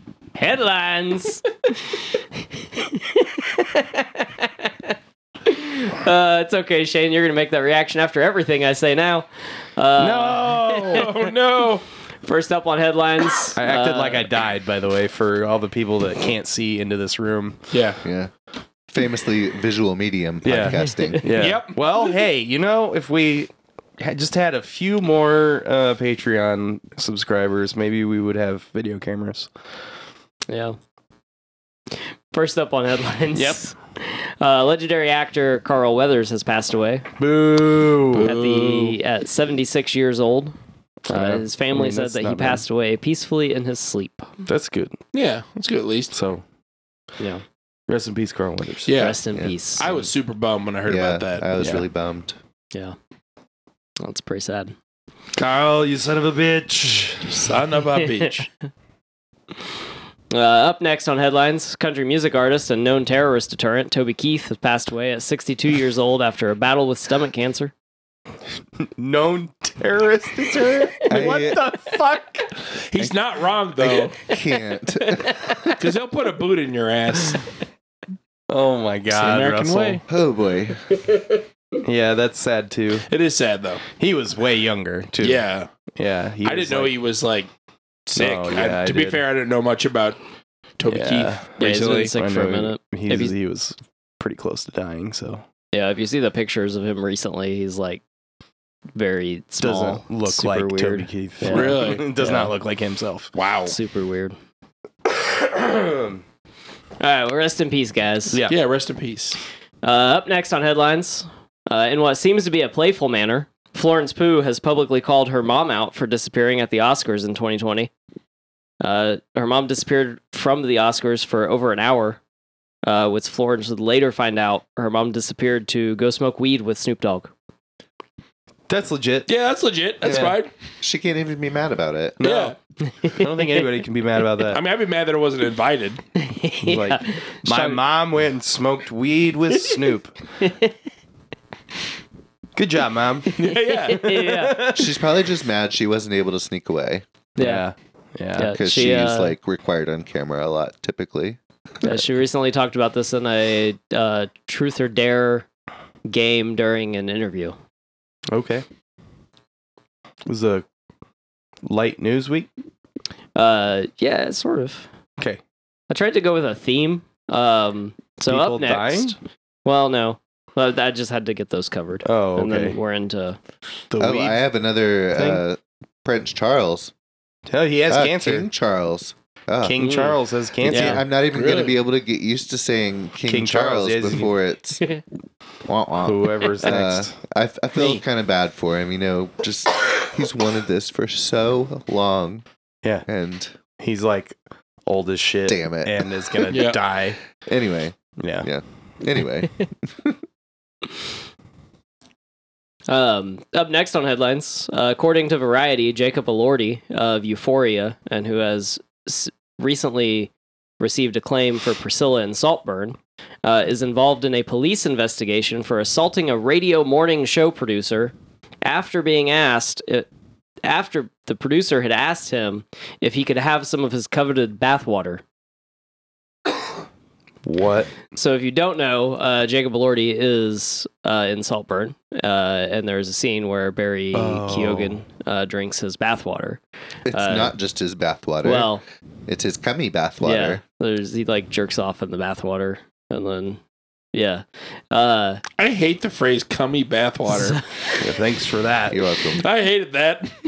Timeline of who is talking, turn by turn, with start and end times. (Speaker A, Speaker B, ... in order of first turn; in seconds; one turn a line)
Speaker A: 0.3-11.2
Speaker B: 10.0-11.1
Speaker C: 10.8-11.8
Speaker A: 12.2-14.3
Speaker B: 13.5-17.6
Speaker C: 17.7-18.0
Speaker D: 18.0-18.3
Speaker D: 18.9-21.4
Speaker B: 20.4-29.5
Speaker A: 20.9-21.1
Speaker C: 21.3-21.8
Speaker A: 30.5-30.8
Speaker A: 31.9-37.1
Speaker B: 33.3-33.6
Speaker B: 37.2-38.3
Speaker C: 38.1-39.0
Speaker A: 38.2-40.5
Speaker B: 41.1-42.6
Speaker A: 41.1-44.3
Speaker B: 44.5-45.0
Speaker C: 45.1-46.1
Speaker B: 46.1-46.4
Speaker A: 47.2-47.4
Speaker B: 47.9-49.0
Speaker C: 48.9-49.2
Speaker A: 49.0-49.9
Speaker D: 49.3-50.0
Speaker C: 49.8-51.5
Speaker D: 50.8-52.4
Speaker B: 51.5-51.9
Speaker A: 54.0-54.7
Speaker B: 55.3-57.5
Speaker C: 57.3-58.5
Speaker A: 60.3-67.7
Speaker B: 68.8-72.5
Speaker D: 71.1-71.6
Speaker C: 72.8-74.3
Speaker D: 73.8-75.8
Speaker A: 75.2-75.5
Speaker C: 75.7-77.5
Speaker B: 78.5-80.0
Speaker C: 79.1-80.0
Speaker D: 80.1-81.0
Speaker B: 81.8-83.1
Speaker C: 83.1-83.8
Speaker B: 83.9-85.4
Speaker C: 85.2-85.7
Speaker B: 85.9-86.9
Speaker C: 86.4-87.5
Speaker C: 88.1-90.2
Speaker B: 88.1-89.2
Speaker C: 90.8-92.1
Speaker B: 90.9-95.4
Speaker A: 91.6-93.3
Speaker A: 95.7-98.0
Speaker A: 98.9-102.5
Speaker B: 99.6-103.3
Speaker C: 101.5-102.0
Speaker C: 103.3-103.7
Speaker A: 103.7-104.3
Speaker B: 105.0-106.2
Speaker A: 107.0-108.4
Speaker B: 108.3-108.5
Speaker C: 108.5-109.4
Speaker A: 109.8-117.9
Speaker A: 118.8-122.2
Speaker A: 122.8-127.3
Speaker B: 128.7-129.3
Speaker C: 129.3-130.5
Speaker D: 130.0-132.2
Speaker B: 130.1-130.4
Speaker B: 132.2-132.5
Speaker C: 132.2-132.6
Speaker A: 132.9-133.2
Speaker B: 133.1-134.6
Speaker C: 134.5-136.0
Speaker A: 136.2-137.8
Speaker B: 136.6-140.2
Speaker A: 140.4-140.7
Speaker B: 142.6-143.3
Speaker C: 143.3-144.1
Speaker A: 143.4-144.7
Speaker B: 143.8-145.0
Speaker D: 144.7-147.0
Speaker A: 147.4-147.6
Speaker B: 147.4-148.5
Speaker A: 148.3-149.3
Speaker D: 148.5-151.4
Speaker A: 151.8-155.5
Speaker A: 156.0-157.6
Speaker B: 158.3-158.6
Speaker B: 160.2-160.7
Speaker B: 161.6-162.5
Speaker A: 163.3-164.9
Speaker A: 165.9-173.4
Speaker B: 168.3-169.2
Speaker B: 172.0-172.8
Speaker B: 173.9-174.4
Speaker D: 174.0-176.9
Speaker B: 175.1-175.4
Speaker B: 177.5-178.5
Speaker D: 177.9-179.9
Speaker B: 179.6-181.0
Speaker A: 179.8-181.0
Speaker D: 180.6-184.9
Speaker C: 181.3-181.8
Speaker B: 183.3-184.3
Speaker D: 185.7-192.4
Speaker B: 186.0-187.1
Speaker C: 187.8-188.0
Speaker D: 193.1-193.5
Speaker B: 193.8-197.2
Speaker D: 195.5-196.6
Speaker C: 196.5-196.8
Speaker D: 197.4-200.2
Speaker B: 198.2-198.5
Speaker A: 202.9-220.1
Speaker A: 220.6-225.2
Speaker B: 227.4-227.9
Speaker A: 228.1-237.5
Speaker B: 234.1-235.0
Speaker D: 237.1-238.7
Speaker A: 238.4-238.8
Speaker D: 239.3-240.6
Speaker A: 240.2-243.6
Speaker A: 244.1-245.4
Speaker C: 245.6-247.6
Speaker A: 247.3-247.6
Speaker B: 248.0-249.0
Speaker D: 248.9-249.4
Speaker C: 249.3-250.3